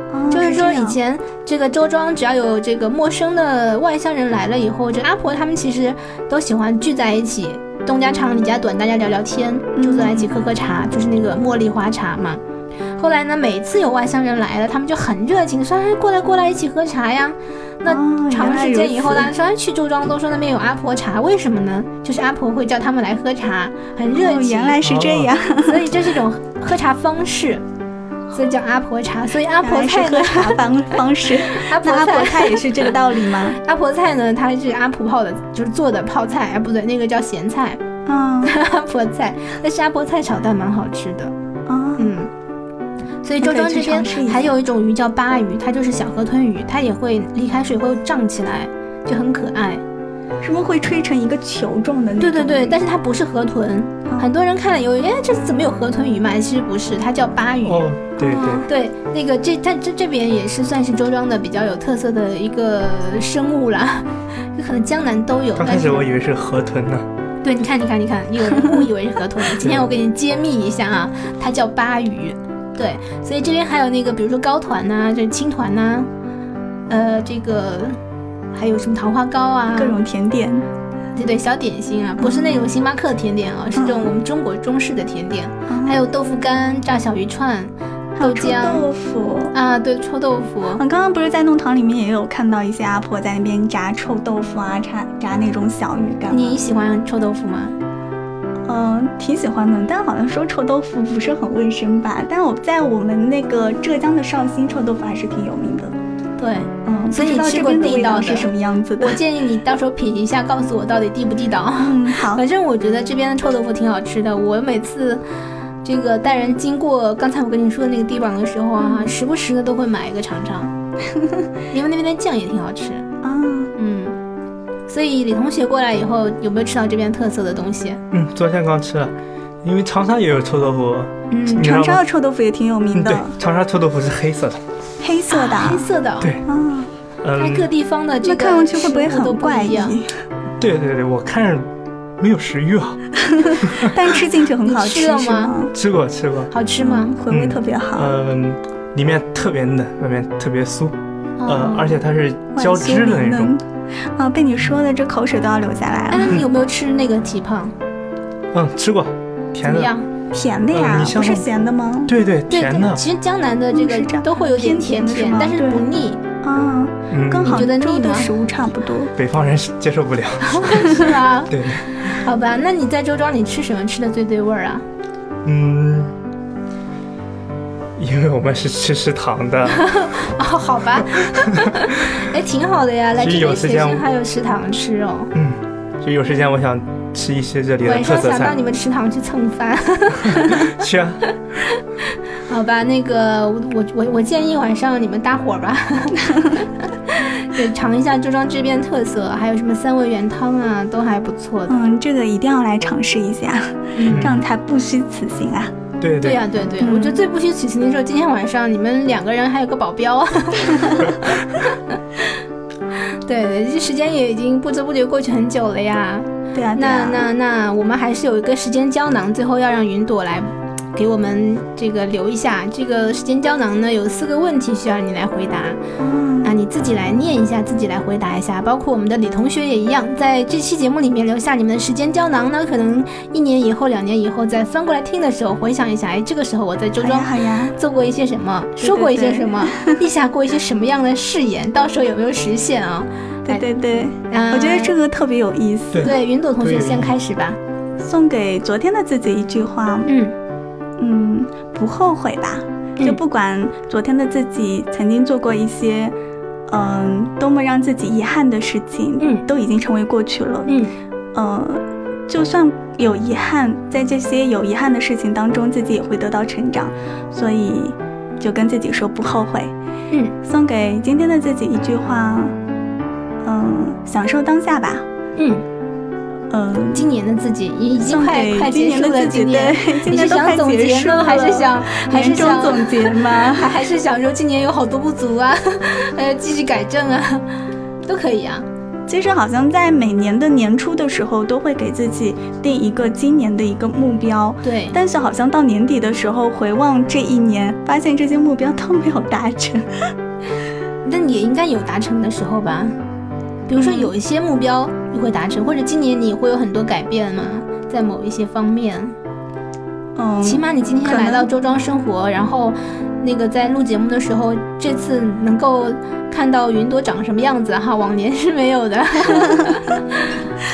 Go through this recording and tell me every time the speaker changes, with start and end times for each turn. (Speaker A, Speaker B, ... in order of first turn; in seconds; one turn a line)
Speaker A: 0.1-1.0
Speaker B: 0.3-12.4
Speaker A: 9.8-10.3
Speaker B: 13.0-24.8
Speaker A: 17.9-19.3
Speaker A: 24.1-25.9
Speaker C: 24.8-25.3
Speaker B: 25.6-27.6
Speaker B: 28.3-30.6
Speaker A: 29.6-33.6
Speaker B: 31.5-32.9
Speaker B: 33.6-37.8
Speaker A: 38.0-38.5
Speaker B: 38.4-41.3
Speaker A: 41.7-42.1
Speaker B: 42.0-42.3
Speaker B: 43.2-49.8
Speaker A: 43.4-44.5
Speaker A: 50.4-52.8
Speaker B: 52.2-66.1
Speaker C: 57.6-58.6
Speaker A: 58.2-58.6
Speaker C: 65.5-67.1
Speaker B: 67.4-76.1
Speaker C: 69.6-69.9
Speaker B: 76.9-78.0
Speaker B: 78.5-80.0
Speaker A: 79.7-80.7
Speaker B: 81.1-88.8
Speaker A: 82.2-82.7
Speaker A: 83.8-84.1
Speaker A: 85.7-86.0
Speaker A: 88.2-89.5
Speaker B: 89.5-90.8
Speaker A: 90.8-96.6
Speaker B: 96.3-97.7
Speaker A: 98.7-105.9
Speaker B: 106.4-108.5
Speaker A: 106.8-109.2
Speaker B: 109.0-115.2
Speaker A: 111.8-112.4
Speaker B: 115.8-120.7
Speaker A: 118.8-119.1
Speaker B: 121.7-123.0
Speaker A: 123.2-123.7
Speaker B: 123.8-124.2
Speaker B: 124.9-128.0
Speaker C: 128.1-132.0
Speaker B: 131.3-131.7
Speaker A: 131.5-133.3
Speaker C: 132.9-134.6
Speaker A: 135.0-135.9
Speaker B: 135.3-136.3
Speaker A: 136.4-136.9
Speaker C: 137.2-137.7
Speaker B: 137.4-139.9
Speaker A: 138.2-140.1
Speaker C: 140.6-143.0
Speaker A: 143.3-145.7
Speaker C: 143.6-144.0
Speaker B: 144.6-145.6
Speaker C: 145.7-146.5
Speaker B: 146.5-147.1
Speaker A: 146.8-148.1
Speaker C: 147.3-153.5
Speaker B: 151.4-152.0
Speaker A: 152.5-156.4
Speaker B: 156.1-157.7
Speaker C: 158.5-159.9
Speaker B: 159.6-160.1
Speaker A: 160.3-162.1
Speaker C: 160.7-161.5
Speaker C: 162.1-163.0
Speaker B: 162.5-166.2
Speaker A: 163.7-165.8
Speaker A: 166.4-169.1
Speaker C: 167.1-167.6
Speaker B: 167.4-168.3
Speaker C: 169.2-171.8
Speaker B: 170.4-174.8
Speaker C: 175.4-176.1
Speaker C: 178.0-179.9
Speaker B: 179.7-185.3
Speaker C: 181.3-181.9
Speaker C: 183.2-184.1
Speaker C: 185.3-188.6
Speaker B: 187.8-190.7
Speaker C: 190.2-191.2
Speaker B: 192.5-201.7
Speaker A: 201.7-205.7
Speaker B: 203.9-204.3
Speaker C: 204.1-204.4
Speaker C: 206.0-206.4
Speaker B: 206.2-211.8
Speaker A: 206.8-207.2
Speaker B: 213.2-225.8
Speaker A: 216.5-217.2
Speaker A: 226.0-226.5
Speaker B: 226.4-243.6
Speaker A: 237.0-237.7
Speaker A: 238.8-240.0
Speaker A: 243.5-246.1
Speaker B: 244.3-244.9
Speaker C: 245.9-247.1
Speaker B: 246.0-247.6
Speaker A: 248.0-250.1
Speaker B: 250.1-250.3
Speaker A: 251.0-256.1
Speaker A: 256.7-260.7
Speaker B: 259.2-259.4
Speaker B: 260.7-260.9
Speaker A: 261.3-269.7
Speaker A: 270.4-272.5
Speaker A: 273.4-275.0
Speaker B: 275.4-275.6
Speaker A: 276.5-277.1
Speaker B: 276.9-287.4
Speaker A: 278.0-283.8
Speaker B: 288.1-288.6
Speaker A: 289.1-300.1
Speaker B: 294.6-295.0
Speaker B: 301.0-302.9
Speaker B: 303.7-309.1
Speaker A: 303.8-304.1
Speaker A: 310.1-311.5
Speaker B: 310.4-320.2